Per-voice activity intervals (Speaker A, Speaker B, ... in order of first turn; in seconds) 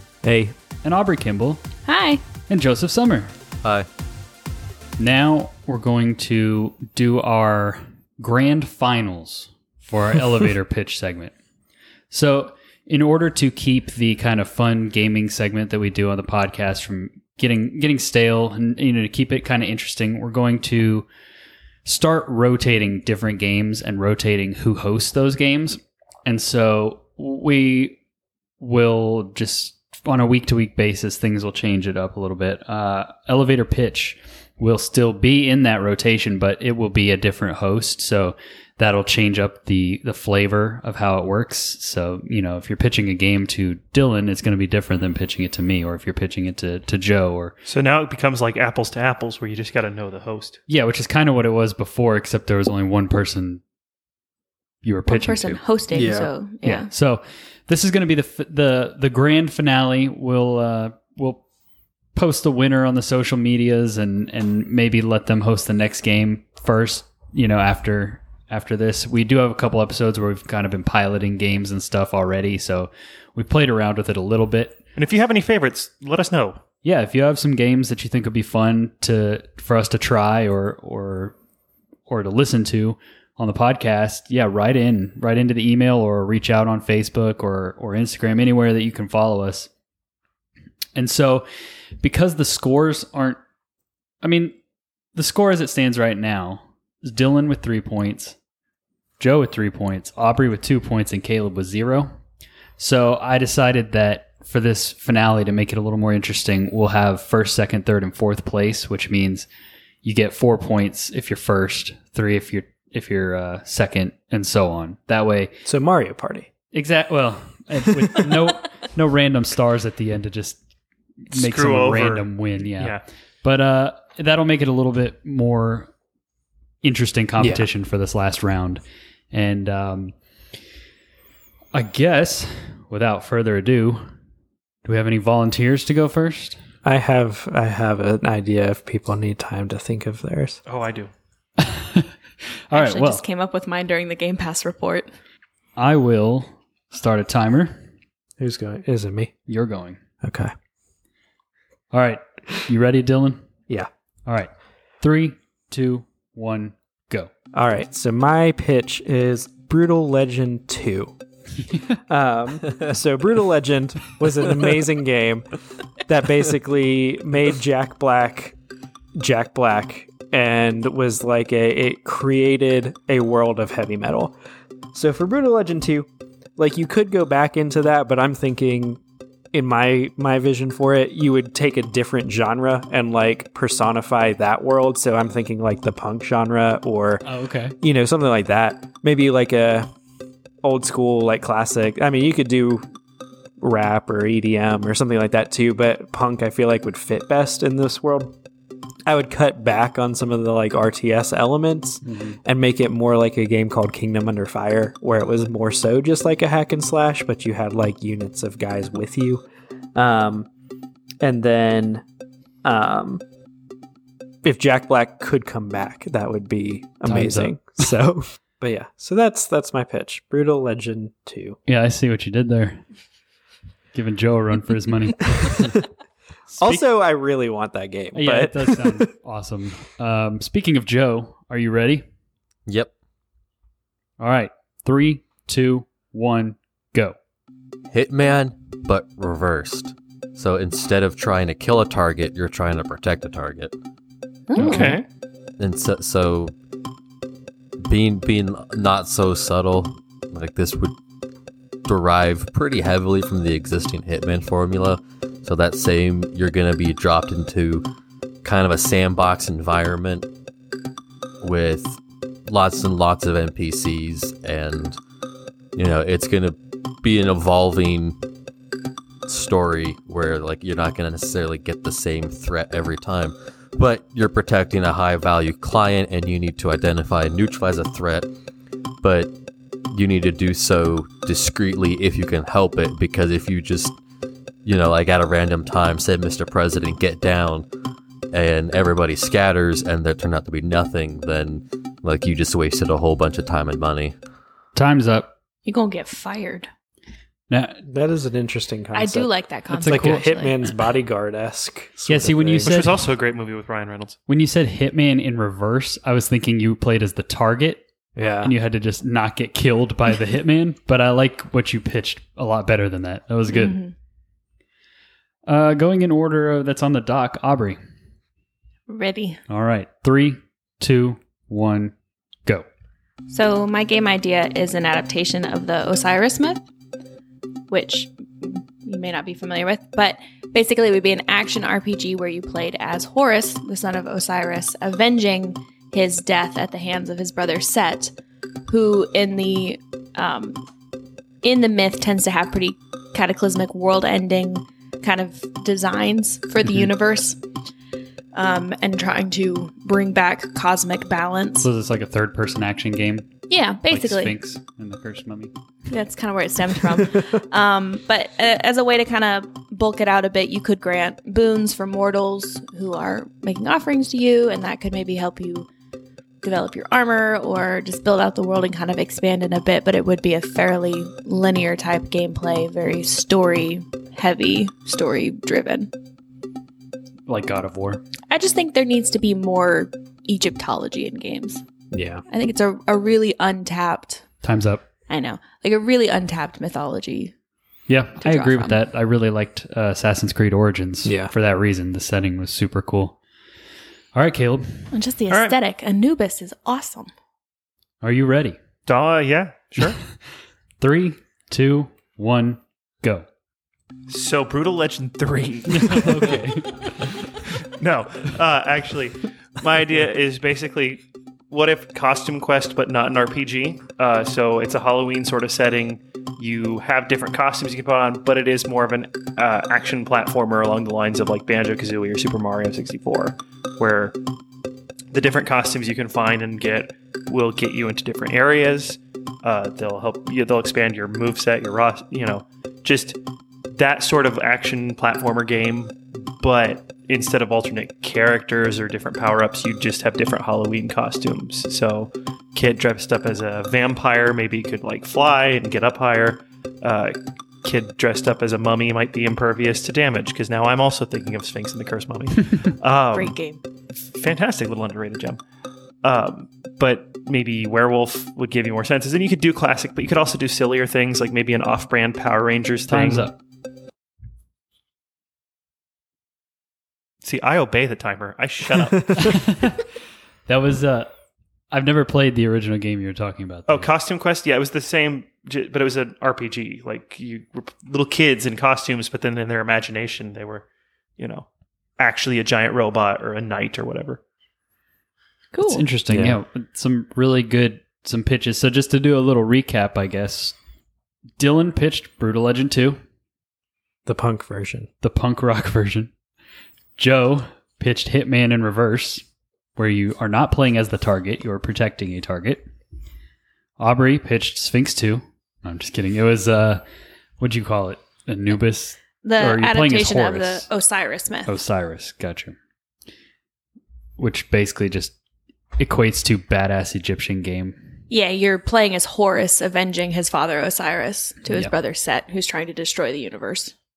Speaker A: 0.2-0.5, 55.9-56.3, 115.7-116.5, 127.4-127.7, 136.8-140.6, 148.4-149.3, 150.2-150.5, 157.5-161.1, 162.1-165.5, 166.1-168.6, 169.2-174.4, 174.9-179.0, 179.5-187.3, 187.8-189.9, 190.6-192.9, 193.6-198.3, 199.1-209.4, 209.9-210.5, 211.2-212.0, 212.7-213.2, 214.4-221.6, 226.6-229.1, 297.9-299.3, 299.9-302.9, 308.2-308.5, 381.9-382.2, 391.1-391.3, 486.1-486.4, 494.1-494.9
Speaker B: 0.8-1.6, 2.5-3.3, 5.0-11.3, 12.1-21.1, 21.9-28.0, 28.6-47.6, 50.7-53.6, 54.8-55.6, 56.6-61.4, 62.1-74.8, 76.8-81.3, 82.1-89.7, 91.0-91.5, 92.0-93.4, 94.2-94.5, 95.2-98.4, 99.2-102.1, 102.8-109.5, 110.0-115.5, 116.7-120.6, 121.3-125.9, 126.8-130.2, 131.7-134.0, 134.8-136.6, 141.6-142.1, 142.7-143.2, 145.8-147.8, 149.5-150.0, 151.9-153.4, 154.3-157.3, 187.2-187.8, 202.0-202.4, 217.1-217.9, 221.7-222.8, 223.9-225.7, 226.5-226.8, 228.1-232.1, 234.2-237.2, 244.6-244.9, 294.8-295.3, 297.5-297.8, 299.7-300.7, 302.1-303.0, 304.3-307.9, 308.4-313.8, 315.5-317.8, 319.5-321.9, 351.6-353.3, 353.9-355.5, 377.3-378.0, 384.4-384.9, 387.9-393.2, 394.1-394.8, 398.0-398.6, 400.8-403.3, 405.7-406.9, 462.9-463.3, 469.2-469.8, 470.5-471.1, 471.7-473.9, 485.6-490.6, 491.4-493.0, 495.0-496.1, 497.0-499.2, 499.8-502.7, 503.8-506.8, 507.4-510.7, 511.4-512.6, 514.2-515.1, 515.8-517.8
Speaker C: 1.9-2.2, 55.1-56.9, 142.7-145.1, 244.5-245.0, 295.7-296.7, 298.9-300.6, 313.5-313.9, 318.9-319.4, 323.3-326.6, 327.7-338.1, 338.7-340.6, 341.4-347.4, 348.3-351.7, 353.5-354.4, 355.9-365.7, 366.4-375.9, 378.3-381.6, 382.3-384.2, 385.1-387.3, 388.2-388.8, 394.9-397.1, 453.1-453.6, 485.5-485.9, 509.2-511.5, 518.1-523.7
Speaker D: 47.7-50.6, 75.0-76.6, 121.3-123.0, 140.7-141.1, 244.6-245.0, 302.6-304.2, 395.3-395.6, 398.9-400.0, 404.1-406.4, 407.8-424.2, 425.1-433.2, 433.8-453.4, 454.0-455.4, 456.0-463.3, 467.2-469.5, 473.7-480.7, 481.2-481.5, 482.0-484.2
Speaker E: 237.9-243.7, 245.6-246.5, 247.8-250.9, 251.8-257.8, 258.4-260.3, 261.4-265.0, 265.8-268.2, 269.3-278.3, 279.0-279.3, 279.9-284.0, 284.6-287.7, 288.3-294.1